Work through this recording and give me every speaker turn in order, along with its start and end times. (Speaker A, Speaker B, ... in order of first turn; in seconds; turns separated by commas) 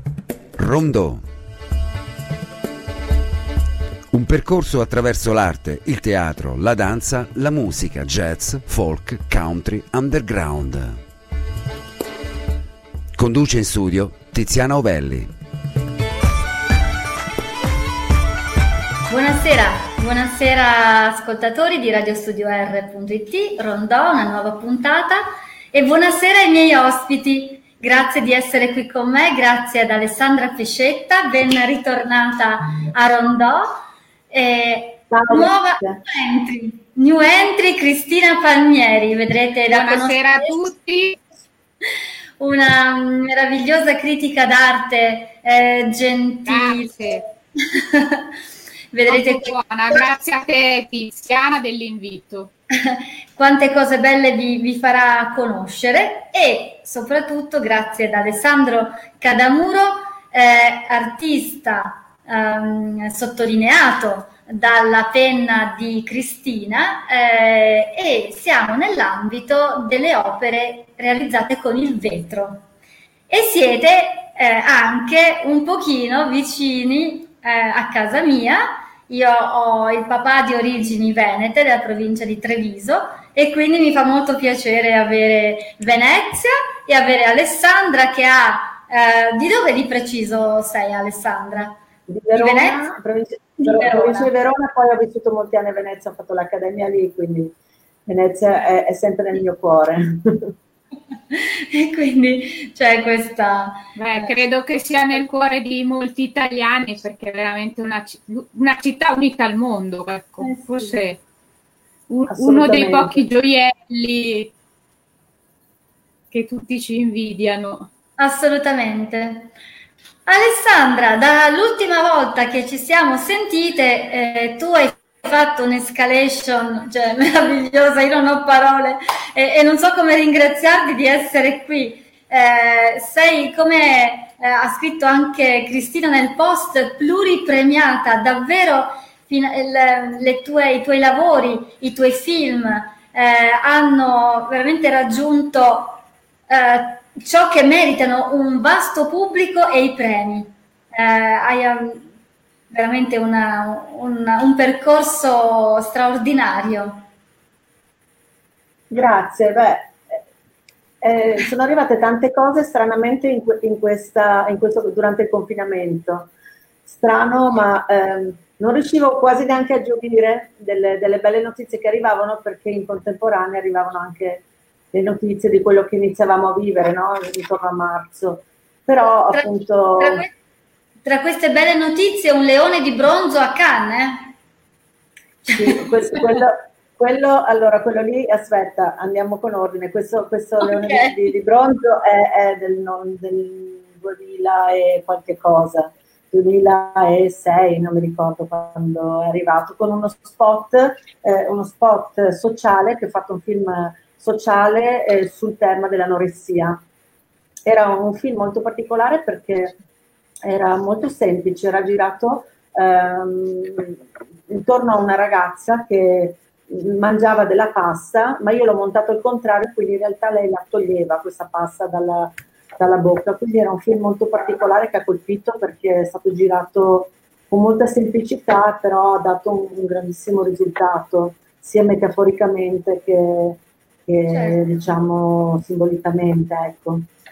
Speaker A: 0.6-1.2, Speaker A: 4.1-11.0, Speaker A: 13.2-15.3, Speaker B: 19.1-40.6, Speaker C: 35.1-36.0, Speaker D: 39.7-41.2, Speaker B: 42.4-47.2, Speaker D: 46.5-47.2, Speaker B: 47.7-48.3, Speaker B: 48.9-50.0, Speaker D: 49.1-52.5, Speaker B: 52.7-72.7, Speaker B: 73.3-91.8, Speaker C: 92.1-97.5, Speaker B: 92.3-93.0, Speaker B: 93.6-94.3, Speaker C: 98.1-100.5, Speaker B: 101.3-104.3, Speaker D: 104.0-111.2, Speaker B: 110.4-111.0, Speaker D: 112.1-114.5, Speaker C: 112.3-113.2, Speaker D: 116.3-117.9, Speaker B: 118.2-119.5, Speaker B: 120.3-152.1, Speaker B: 152.7-157.1, Speaker C: 158.9-160.0, Speaker C: 161.0-166.3, Speaker C: 166.9-180.3, Speaker B: 179.3-180.3, Speaker B: 181.1-184.3, Speaker C: 185.5-206.8, Speaker B: 190.6-191.2, Speaker C: 207.7-209.8, Speaker C: 210.4-237.1, Speaker B: 234.3-234.7